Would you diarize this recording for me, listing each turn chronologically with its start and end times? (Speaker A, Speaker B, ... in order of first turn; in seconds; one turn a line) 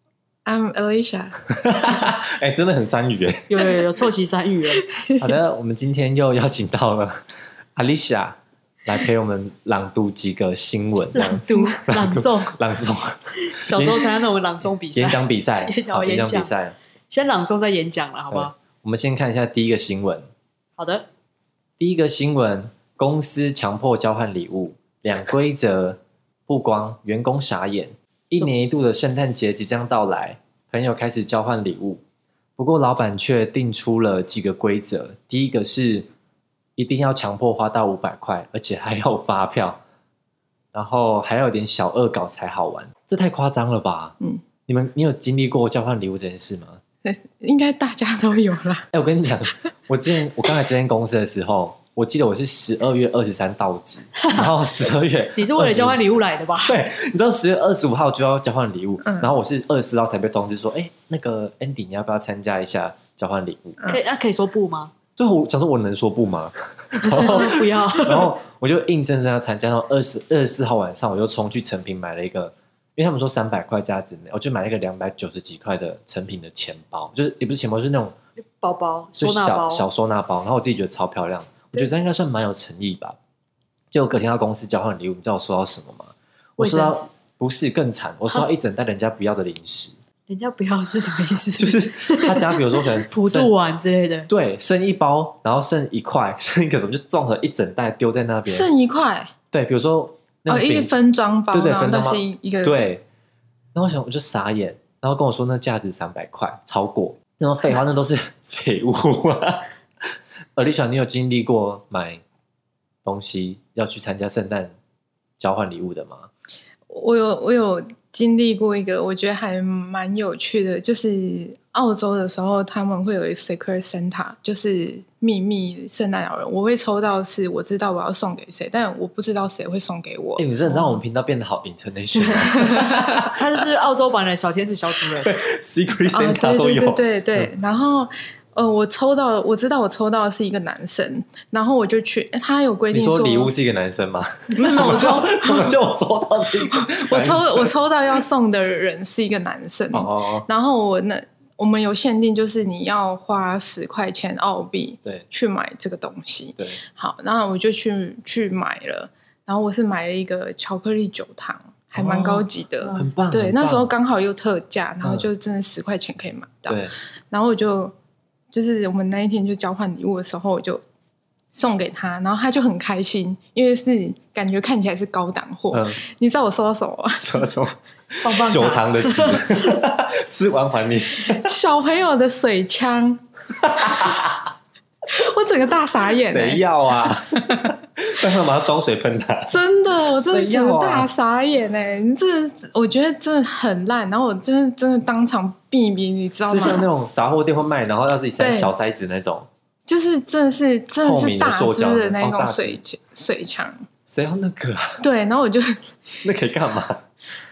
Speaker A: 0.5-1.5
Speaker B: 1.5-3.6
Speaker C: 3.5-4.8
Speaker A: 4.9-5.2
Speaker B: 5.2-14.1
Speaker C: 11.1-12.6
Speaker C: 13.4-16.5
Speaker B: 14.9-16.7
Speaker C: 17.1-18.6
Speaker B: 18.3-20.3
Speaker C: 20.8-21.1
Speaker B: 21.8-32.0
Speaker B: 32.6-36.1
Speaker B: 36.8-39.8
Speaker B: 40.7-46.8
Speaker A: 47.0-48.9
Speaker B: 48.9-56.0
Speaker C: 55.4-56.8
Speaker B: 56.6-63.8
Speaker A: 59.0-59.3
Speaker C: 63.8-64.9
Speaker B: 65.2-78.1
Speaker C: 67.0-68.3
Speaker C: 78.4-79.8
Speaker B: 79.2-83.2
Speaker B: 83.9-90.0
Speaker C: 86.6-87.1
Speaker C: 90.3-94.3
Speaker B: 91.6-93.5
Speaker B: 94.3-98.7
Speaker A: 98.5-99.3
Speaker B: 99.5-100.9
Speaker A: 100.5-102.8
Speaker B: 101.5-103.0
Speaker B: 103.7-112.2
Speaker B: 113.0-114.7
Speaker B: 115.4-116.3
Speaker A: 116.9-130.5
Speaker B: 130.4-133.3
Speaker C: 132.2-135.3
Speaker A: 132.6-133.2
Speaker B: 135.1-137.5
Speaker A: 136.1-143.5
Speaker B: 142.9-147.7
Speaker A: 144.5-145.7
Speaker A: 146.8-167.9
Speaker B: 149.9-150.5
Speaker B: 161.9-163.9
Speaker C: 162.8-163.1
Speaker B: 166.7-166.9
Speaker A: 168.5-170.8
Speaker A: 171.5-177.5
Speaker B: 175.7-176.0
Speaker B: 177.2-181.5
Speaker C: 178.2-179.8
Speaker A: 181.3-183.2
Speaker B: 183.6-184.5
Speaker A: 185.1-187.7
Speaker B: 186.2-189.6
Speaker A: 189.5-196.9
Speaker B: 190.1-191.1
Speaker B: 196.4-199.5
Speaker A: 198.4-198.7
Speaker A: 199.9-203.8
Speaker B: 201.0-202.8
Speaker B: 204.1-205.0
Speaker A: 205.0-205.9
Speaker B: 206.2-207.0